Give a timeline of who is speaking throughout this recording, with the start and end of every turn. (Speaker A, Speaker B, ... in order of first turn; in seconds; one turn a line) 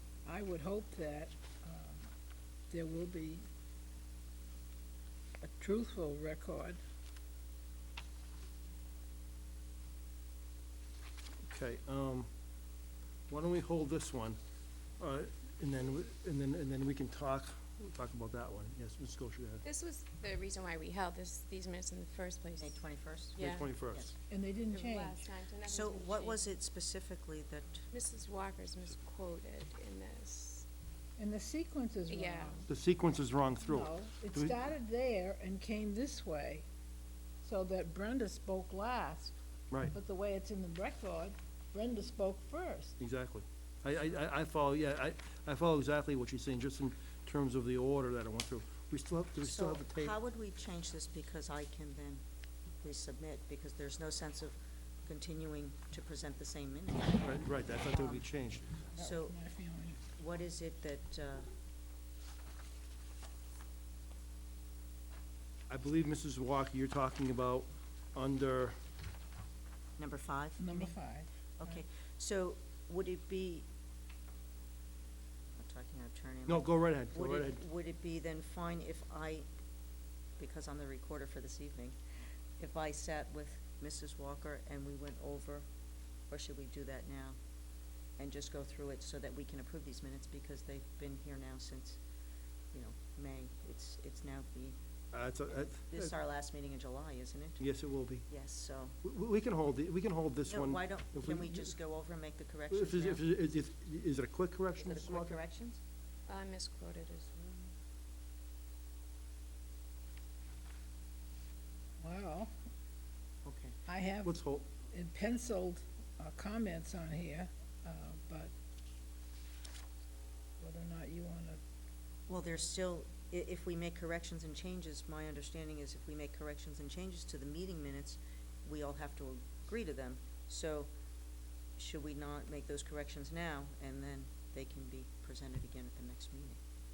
Speaker A: 0.2-2.1
Speaker A: 2.7-3.4
Speaker A: 5.4-6.8
Speaker B: 11.5-12.3
Speaker B: 13.3-14.4
Speaker B: 15.0-19.6
Speaker C: 19.6-23.7
Speaker D: 22.6-23.4
Speaker B: 23.4-24.1
Speaker D: 23.9-24.1
Speaker A: 24.3-25.3
Speaker C: 24.7-26.5
Speaker D: 25.7-27.9
Speaker C: 27.9-30.6
Speaker A: 31.2-32.7
Speaker C: 32.1-32.7
Speaker B: 32.7-34.5
Speaker A: 33.7-36.7
Speaker A: 37.4-39.3
Speaker A: 39.9-43.0
Speaker B: 43.0-50.2
Speaker D: 49.4-52.2
Speaker D: 52.8-58.2
Speaker B: 57.2-58.7
Speaker D: 59.0-59.4
Speaker A: 59.0-60.0
Speaker D: 60.2-61.5
Speaker B: 65.7-68.8
Speaker D: 70.0-71.0
Speaker A: 70.6-71.8
Speaker D: 71.6-73.6
Speaker D: 75.6-79.5
Speaker B: 76.5-77.6
Speaker D: 80.4-82.0
Speaker D: 82.6-85.7
Speaker D: 86.3-87.4
Speaker D: 88.2-92.0
Speaker D: 92.7-94.8
Speaker B: 95.1-96.1
Speaker D: 95.8-97.7
Speaker B: 97.6-98.3
Speaker D: 98.3-99.0
Speaker B: 99.0-101.8
Speaker D: 100.5-103.2
Speaker B: 102.7-105.4
Speaker D: 104.8-105.8
Speaker C: 106.3-107.7
Speaker A: 112.0-112.5
Speaker D: 113.5-113.8
Speaker A: 113.9-118.5
Speaker B: 114.2-114.7
Speaker A: 120.6-121.6
Speaker D: 122.3-130.9
Speaker D: 131.8-136.6